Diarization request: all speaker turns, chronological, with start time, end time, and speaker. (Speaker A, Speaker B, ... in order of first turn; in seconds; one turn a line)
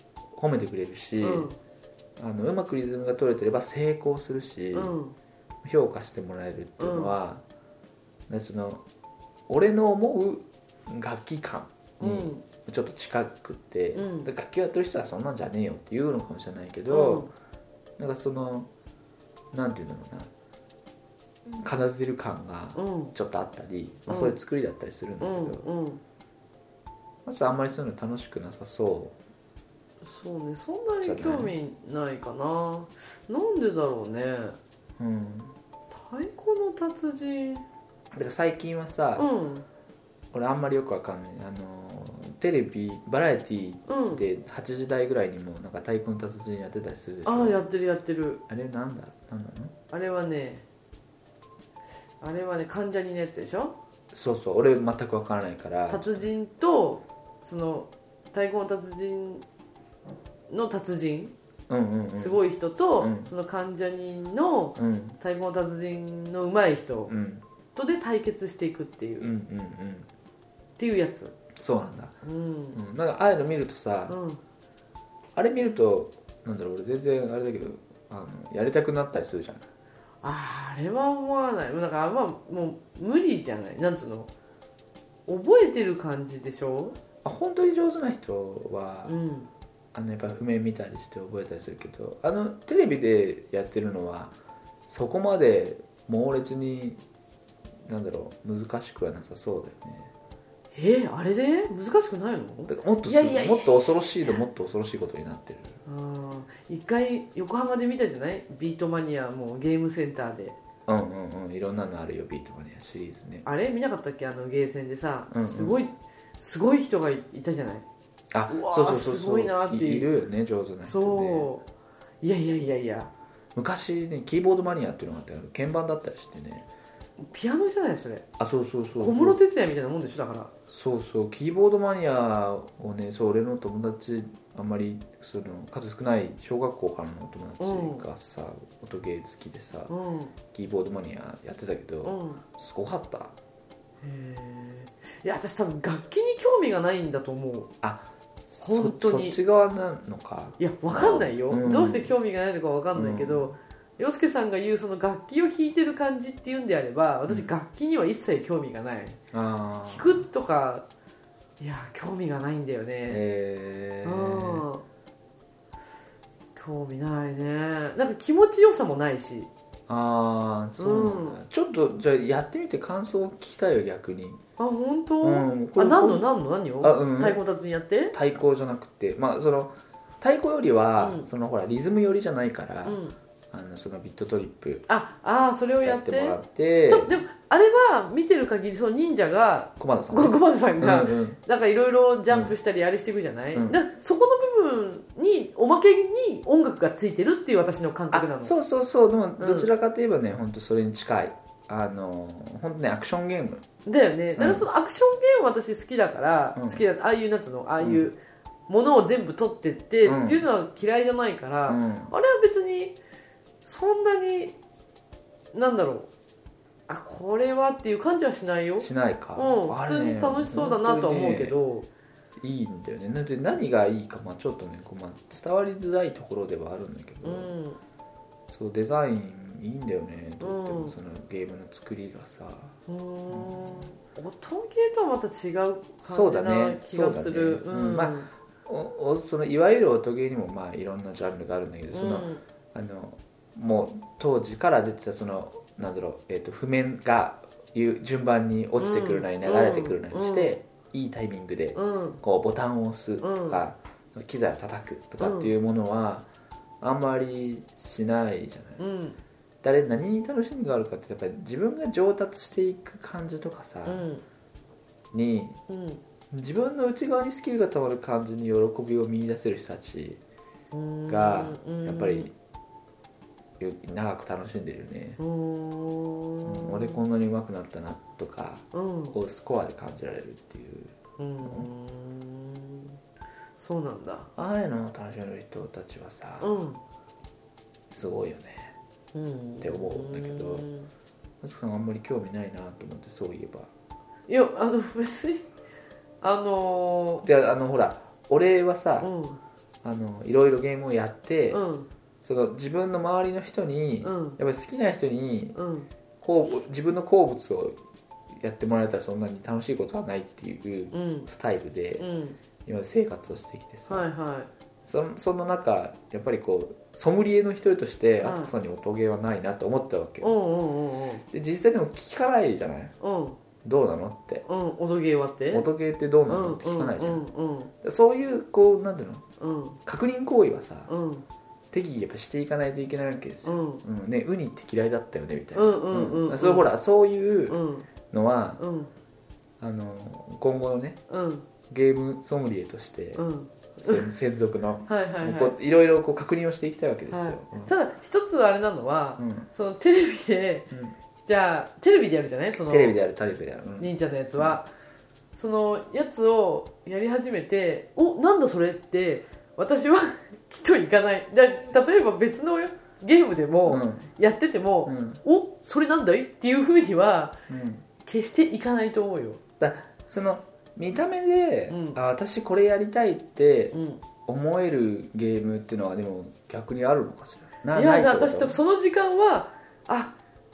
Speaker A: 0.3-1.5
Speaker B: 1.2-1.6
Speaker A: 2.2-4.9
Speaker B: 4.7-5.2
Speaker A: 5.6-7.4
Speaker B: 6.8-7.1
Speaker A: 8.3-8.8
Speaker A: 9.5-17.3
Speaker B: 12.0-12.4
Speaker B: 13.9-14.3
Speaker B: 16.9-17.3
Speaker A: 18.0-18.7
Speaker A: 19.5-20.3
Speaker A: 21.6-25.6
Speaker B: 22.8-23.1
Speaker B: 24.1-24.4
Speaker B: 25.2-26.0
Speaker A: 27.2-29.1
Speaker B: 30.0-34.6
Speaker A: 31.0-31.5
Speaker A: 35.0-35.5
Speaker B: 35.9-37.6
Speaker A: 38.1-39.3
Speaker B: 39.2-39.6
Speaker A: 40.3-47.6
Speaker B: 43.9-44.2
Speaker B: 47.2-48.4
Speaker A: 48.5-49.7
Speaker B: 49.9-50.6
Speaker B: 52.2-53.8
Speaker A: 54.1-56.3
Speaker B: 55.9-59.4
Speaker B: 60.5-61.3
Speaker A: 61.7-62.4
Speaker B: 62.1-67.1
Speaker A: 63.0-63.3
Speaker A: 64.8-65.2
Speaker A: 67.1-67.4
Speaker B: 67.7-69.3
Speaker A: 69.2-70.1
Speaker B: 70.8-71.3
Speaker A: 71.6-72.2
Speaker B: 72.2-72.8
Speaker A: 72.7-74.2
Speaker B: 74.1-74.4
Speaker A: 75.3-79.7
Speaker B: 80.2-84.3
Speaker B: 85.3-87.0
Speaker A: 87.2-89.2
Speaker B: 89.1-89.5
Speaker A: 89.9-94.3
Speaker A: 94.9-97.0
Speaker A: 97.8-100.1
Speaker B: 100.7-103.8
Speaker A: 102.7-105.8
Speaker B: 105.8-110.6
Speaker A: 110.9-113.5
Speaker B: 113.4-117.8
Speaker A: 115.3-115.8
Speaker A: 118.3-121.5
Speaker B: 118.5-120.1
Speaker B: 120.8-121.6
Speaker B: 122.2-123.1
Speaker A: 123.5-126.7
Speaker B: 127.2-128.2
Speaker A: 128.4-129.4
Speaker B: 129.0-130.5
Speaker A: 130.7-139.9
Speaker B: 137.6-138.0
Speaker B: 139.9-140.3
Speaker A: 140.5-143.3
Speaker B: 142.0-142.4
Speaker B: 144.0-147.7
Speaker A: 147.8-152.1
Speaker B: 148.6-149.4
Speaker B: 150.6-159.2
Speaker A: 152.9-153.6
Speaker A: 159.3-160.2
Speaker B: 159.8-160.8
Speaker B: 161.6-163.2
Speaker A: 163.1-164.7
Speaker B: 164.0-164.8
Speaker B: 166.6-169.5
Speaker A: 169.9-174.4
Speaker B: 170.8-171.4
Speaker B: 174.6-178.1
Speaker A: 175.2-176.2
Speaker A: 176.8-177.4
Speaker A: 178.1-184.8
Speaker B: 181.0-181.3
Speaker B: 182.8-183.1
Speaker B: 184.9-198.5
Speaker A: 185.8-187.1
Speaker A: 189.8-191.4
Speaker A: 192.3-192.5
Speaker A: 193.5-193.8
Speaker A: 198.1-203.6
Speaker B: 199.4-199.7
Speaker B: 203.8-213.0
Speaker A: 204.4-204.7
Speaker A: 206.6-206.8
Speaker A: 207.8-208.1
Speaker A: 210.0-210.4
Speaker A: 211.7-212.1
Speaker B: 213.6-214.6
Speaker B: 215.5-216.1
Speaker B: 216.9-221.9
Speaker A: 218.8-221.6
Speaker A: 222.4-227.5
Speaker B: 227.2-227.8
Speaker A: 228.5-232.8
Speaker B: 230.4-230.9
Speaker B: 232.9-238.3
Speaker A: 233.3-233.9
Speaker A: 236.0-256.3
Speaker B: 241.9-242.4
Speaker B: 248.8-250.6
Speaker B: 251.7-252.2
Speaker B: 253.2-253.6
Speaker B: 255.2-255.5
Speaker A: 256.8-258.8
Speaker B: 258.8-259.2
Speaker A: 259.6-264.1
Speaker B: 263.9-264.2
Speaker A: 265.1-265.6
Speaker B: 265.7-266.0
Speaker A: 266.3-270.2
Speaker B: 270.7-272.3
Speaker A: 271.1-272.3
Speaker A: 273.6-275.2
Speaker B: 275.2-277.0
Speaker A: 276.4-281.7
Speaker B: 278.7-279.1
Speaker B: 281.2-283.0
Speaker B: 283.6-284.3
Speaker A: 284.4-286.5
Speaker B: 286.4-286.8
Speaker A: 287.9-288.8
Speaker B: 289.1-290.9
Speaker A: 289.6-290.7
Speaker A: 291.4-293.7
Speaker B: 294.3-295.5
Speaker B: 296.2-297.2
Speaker A: 297.2-299.1
Speaker B: 299.0-299.4
Speaker A: 299.8-301.6
Speaker B: 301.5-301.9
Speaker A: 302.2-305.6
Speaker B: 304.0-304.4
Speaker B: 305.5-305.9
Speaker A: 306.2-307.8
Speaker A: 308.3-312.1
Speaker B: 310.9-311.3
Speaker B: 312.0-312.4
Speaker A: 312.6-314.1
Speaker B: 313.9-314.5
Speaker A: 314.9-320.3
Speaker B: 318.2-318.5
Speaker B: 320.2-321.2
Speaker A: 321.3-322.9
Speaker B: 323.0-323.4
Speaker A: 323.6-324.4
Speaker B: 324.4-325.7
Speaker A: 325.5-327.2
Speaker B: 326.3-327.7
Speaker A: 327.8-329.2
Speaker B: 329.4-329.8
Speaker A: 329.9-330.9
Speaker B: 330.9-331.2
Speaker A: 331.7-338.6
Speaker B: 333.4-333.8
Speaker B: 335.5-336.7
Speaker B: 337.5-337.9
Speaker B: 338.6-338.9
Speaker A: 339.6-341.0
Speaker B: 341.1-341.5
Speaker A: 341.7-343.2
Speaker B: 343.1-344.1
Speaker A: 343.8-347.7
Speaker B: 344.9-345.6
Speaker B: 347.1-350.7
Speaker A: 349.2-349.5
Speaker A: 350.7-350.9
Speaker B: 351.2-353.0
Speaker A: 352.7-354.6
Speaker B: 353.8-354.7
Speaker B: 355.4-367.4
Speaker A: 363.6-364.1
Speaker A: 364.9-365.2
Speaker A: 367.5-367.8
Speaker B: 368.0-369.4
Speaker A: 369.6-378.6
Speaker B: 371.7-372.0
Speaker B: 373.7-374.0
Speaker B: 377.7-380.1